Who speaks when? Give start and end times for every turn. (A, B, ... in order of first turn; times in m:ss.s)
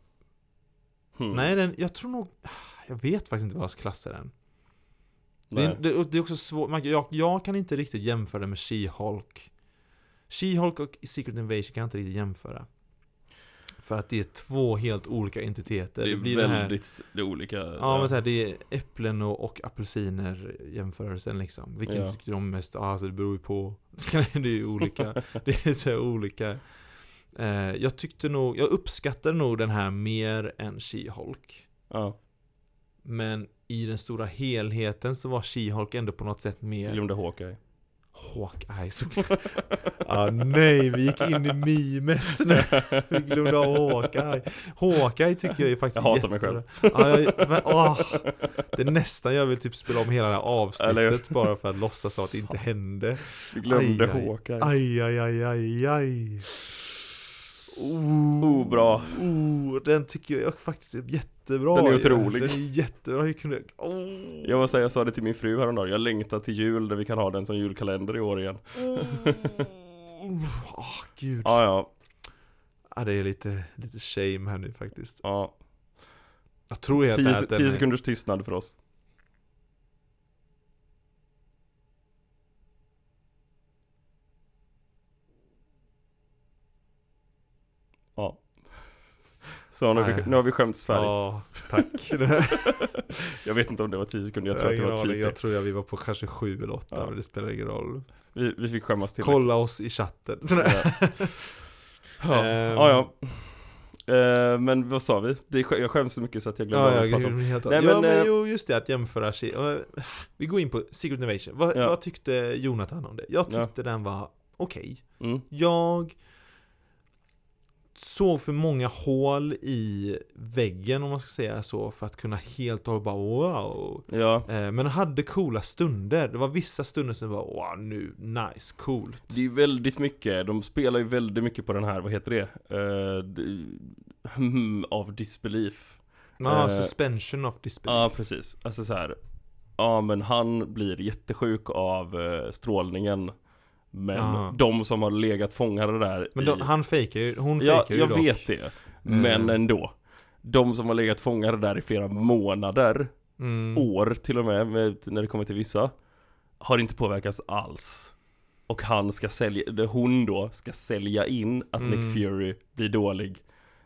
0:01.2-0:01.5 A
0:01.3-0:04.3 B
0:05.5-0:05.8 A
0:05.5-0:09.5 B
0:10.3-0:12.7 B
0:13.8-0:16.7 B
0:16.0-0:18.1 A
0:17.8-0:26.6 B
0:21.9-0:22.2 A
0:27.3-0:31.7 B
0:31.9-0:32.2 A
0:33.0-0:37.0 B
0:36.8-0:37.6 A
0:38.1-0:56.5 B
0:41.2-0:41.5 A
0:42.3-0:44.2 A
0:45.9-0:48.5 A
0:50.8-0:51.4 A
0:53.5-0:54.7 A
0:57.7-1:04.6 B
0:58.4-0:59.2 A
1:01.7-1:02.6 A
1:04.4-1:09.7 A
1:08.9-1:11.6 B
1:11.4-1:11.9 A
1:12.9-1:15.2 B
1:15.2-1:15.6 A
1:16.7-1:17.8 B
1:17.1-1:18.7 A
1:28.2-1:28.8 A
1:29.7-1:31.9 A
1:29.9-1:30.3 B
1:30.9-1:33.0 B
1:32.5-1:35.4 A
1:34.5-1:38.1 B
1:38.3-1:39.5 A
1:39.2-1:41.5 B
1:40.6-1:40.9 A
1:42.2-1:48.3 A
1:42.3-1:43.1 B
1:46.7-1:56.2 B
1:55.2-1:55.4 A
1:57.9-2:09.4 B
2:04.1-2:04.5 A
2:09.3-2:16.9 A
2:16.4-2:18.2 B
2:17.8-2:19.2 A
2:19.8-2:23.3 A
2:23.9-2:26.7 A
2:24.1-2:24.6 B
2:26.3-2:28.5 B
2:27.6-2:29.9 A
2:29.0-2:29.6 B
2:30.4-2:33.1 A
2:33.4-2:33.9 B
2:33.7-2:35.9 A
2:36.6-2:38.1 A
2:38.7-2:43.4 A
2:41.8-2:42.2 B